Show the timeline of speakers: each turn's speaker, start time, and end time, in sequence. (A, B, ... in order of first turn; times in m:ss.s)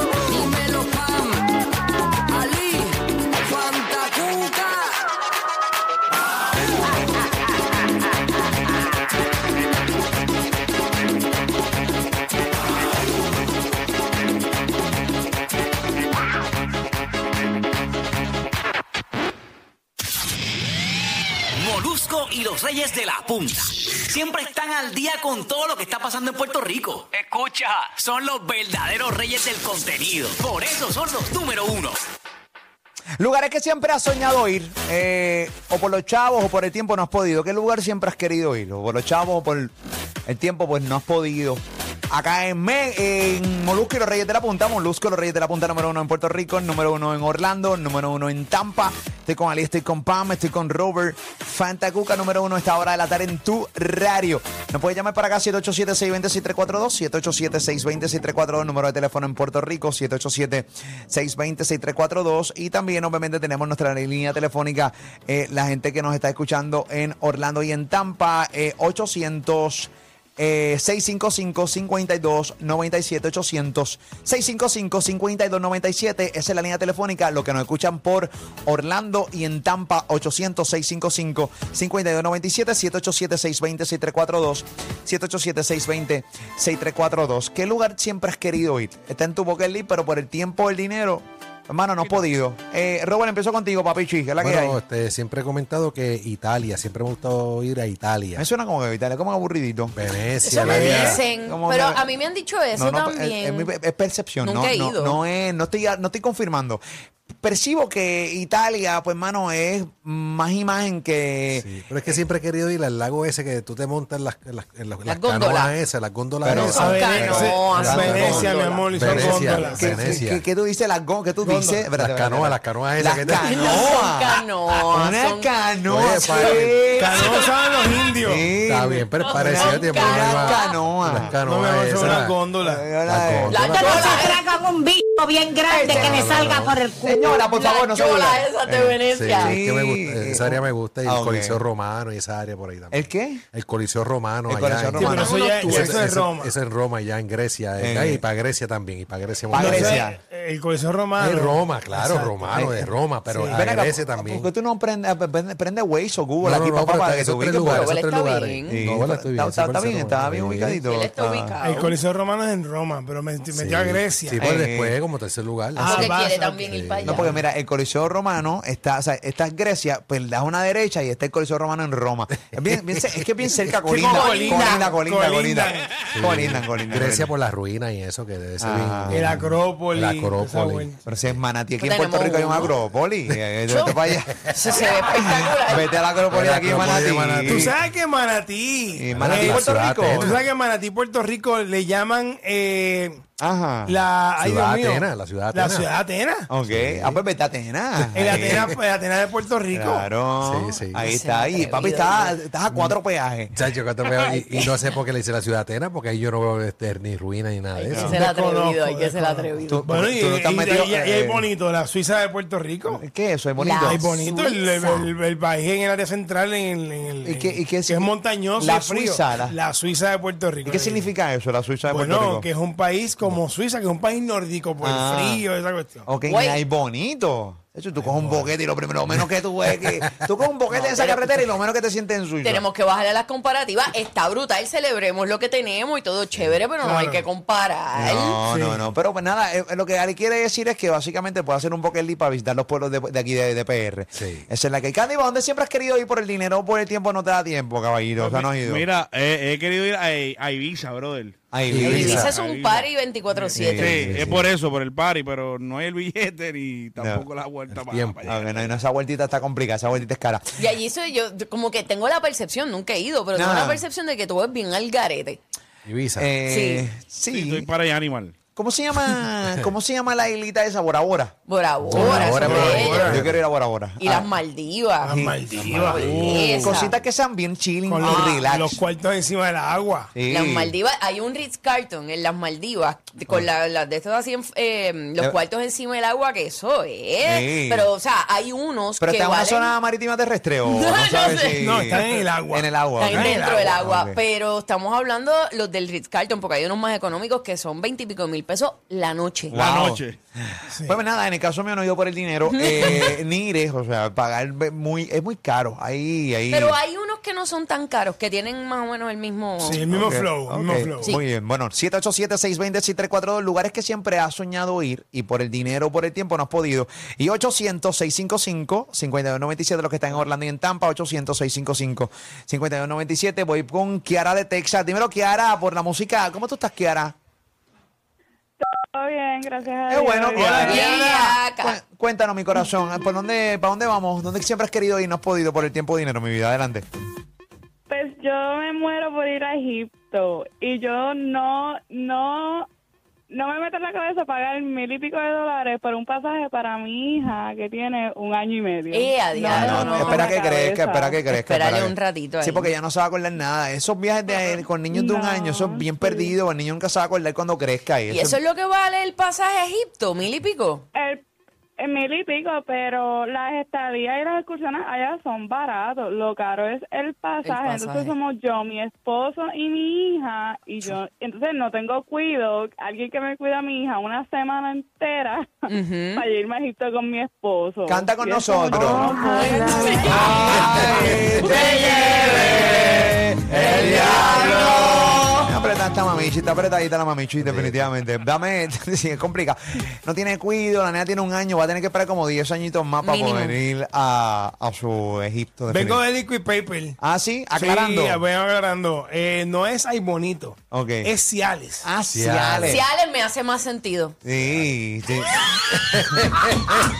0:00.3-0:01.0 A
0:03.7-0:04.4 A
0:21.6-0:32.0 B
0:33.2-0:39.7 C
0:40.2-1:34.8 C
1:32.0-1:32.3 D
1:34.4-1:38.4 E
1:38.3-1:39.9 C
1:39.9-1:41.2 E
1:40.4-1:43.7 A
1:40.6-1:42.0 C
1:42.7-1:46.8 C
1:44.4-1:45.2 A
1:47.4-1:51.7 C
1:51.5-2:00.4 E
1:55.0-1:55.8 A
1:56.4-1:58.4 C
1:56.5-1:59.2 A
1:56.7-2:00.2 F
1:59.0-2:04.4 C
2:01.4-2:01.9 F
2:01.9-2:03.9 E
2:03.5-2:05.5 A
2:04.9-2:07.5 C
2:05.9-2:06.8 E
2:06.3-2:07.8 A
2:07.0-2:08.5 F
2:08.2-2:11.4 C
2:08.6-2:12.4 E
2:09.2-2:10.7 A
2:11.4-2:12.9 F
2:12.6-2:14.3 C
2:13.0-2:14.4 E
2:13.5-2:14.4 A
2:13.8-2:17.2 G
2:15.7-2:16.5 C
2:15.8-2:16.8 E
2:17.0-2:21.6 C
2:17.5-2:19.6 A
2:19.1-2:30.0 E
2:22.9-2:23.4 C
2:24.5-2:26.0 C
2:24.9-2:26.5 F
2:25.0-2:25.9 A
2:27.8-2:28.2 C
2:29.5-2:30.2 C
2:29.5-2:33.7 F
2:31.2-2:31.6 C
2:31.2-2:34.5 E
2:32.5-2:32.8 C
2:33.5-2:37.9 C
2:36.4-2:40.8 E
2:37.6-2:38.8 A
2:38.7-2:41.6 C
2:40.9-2:41.9 A
2:41.6-2:44.4 F
2:43.5-2:46.1 E
2:44.4-2:45.0 C
2:45.8-2:47.3 F
2:45.8-2:47.4 A
2:46.6-2:47.2 E
2:47.0-2:57.3 C
2:52.5-2:53.6 E
2:53.8-2:56.0 F
2:54.1-2:54.9 A
2:56.1-3:00.9 E
2:58.6-2:59.3 C
2:59.1-3:01.0 F
3:01.0-3:07.8 C
3:01.8-3:02.7 A
3:03.7-3:05.9 A
3:06.3-3:07.7 E
3:07.4-3:13.2 F
3:09.0-3:10.4 C
3:09.1-3:10.4 E
3:13.4-3:14.0 C
3:13.8-3:16.5 F
3:14.4-3:15.9 E
3:16.5-3:18.8 C
3:16.6-3:17.2 E
3:18.1-3:20.1 F
3:18.3-3:18.5 E
3:19.7-3:23.5 C
3:20.4-3:21.1 E
3:21.0-3:22.3 A
3:22.7-3:23.0 E
3:23.5-3:28.1 E
3:27.7-3:29.9 A
3:27.9-3:28.2 C
3:28.0-3:33.0 F
3:29.7-3:31.5 C
3:32.9-3:34.0 C
3:33.6-3:35.1 A
3:33.8-3:41.1 F
3:37.2-3:39.5 C
3:40.6-3:42.5 C
3:41.8-3:46.1 F
3:44.8-3:45.4 C
3:46.1-3:52.6 C
3:46.3-3:46.6 A
3:48.0-3:48.5 E
3:50.7-3:51.5 A
3:52.4-3:58.4 A
3:56.8-3:57.2 F
3:57.9-4:08.9 C
3:58.5-3:58.8 F
4:04.1-4:04.4 E
4:08.2-4:18.8 D
4:11.5-4:12.3 C
4:11.7-4:12.3 E
4:11.8-4:14.2 A
4:13.5-4:14.5 C
4:17.0-4:17.3 C
4:17.7-4:18.4 E
4:18.3-4:20.6 C
4:20.6-4:25.4 A
4:23.3-4:23.8 C
4:25.8-4:26.3 E
4:26.2-4:27.7 C
4:26.4-4:26.8 A
4:27.3-4:28.3 D
4:28.6-4:31.3 C
4:31.5-4:33.2 A
4:31.8-4:33.4 E
4:31.9-4:34.3 C
4:32.0-4:33.2 F
4:34.0-4:35.2 A
4:35.0-4:36.7 F
4:35.1-4:38.8 C
4:35.8-4:36.5 E
4:35.9-4:37.0 A
4:37.8-4:40.1 F
4:38.0-4:38.4 A
4:40.1-4:40.7 C
4:40.3-4:49.8 A
4:47.2-4:47.9 C
4:49.0-4:54.2 C
4:50.6-4:52.0 A
4:51.5-4:53.7 F
4:53.0-4:59.6 A
4:59.5-5:06.8 C
4:59.5-5:00.2 D
5:00.7-5:01.0 F
5:02.5-5:03.2 A
5:06.5-5:09.9 A
5:09.6-5:11.2 F
5:09.8-5:27.1 C
5:28.6-5:30.8 H
5:29.9-5:36.8 C
5:30.3-5:31.2 F
5:30.6-5:31.8 A
5:37.9-5:42.7 H
5:43.3-5:51.2 H
5:48.9-5:50.3 A
5:49.5-5:58.4 C
5:51.3-5:52.7 A
5:54.5-5:56.3 H
5:58.1-6:00.8 A
6:00.9-6:01.2 H
6:01.8-6:21.8 H
6:07.4-6:08.1 A
6:15.7-6:16.2 A
6:17.9-6:19.1 C
6:18.8-6:23.0 A
6:19.8-6:36.0 C
6:23.5-6:25.3 A
6:27.4-6:27.8 E
6:33.0-6:33.6 A
6:35.7-6:37.0 F
6:37.0-6:38.2 C
6:37.5-6:41.9 F
6:40.7-6:41.1 C
6:41.8-6:42.8 C
6:42.1-6:42.8 E
6:42.6-6:44.2 A
6:44.2-6:45.8 C
6:44.4-6:44.7 E
6:46.1-6:46.7 E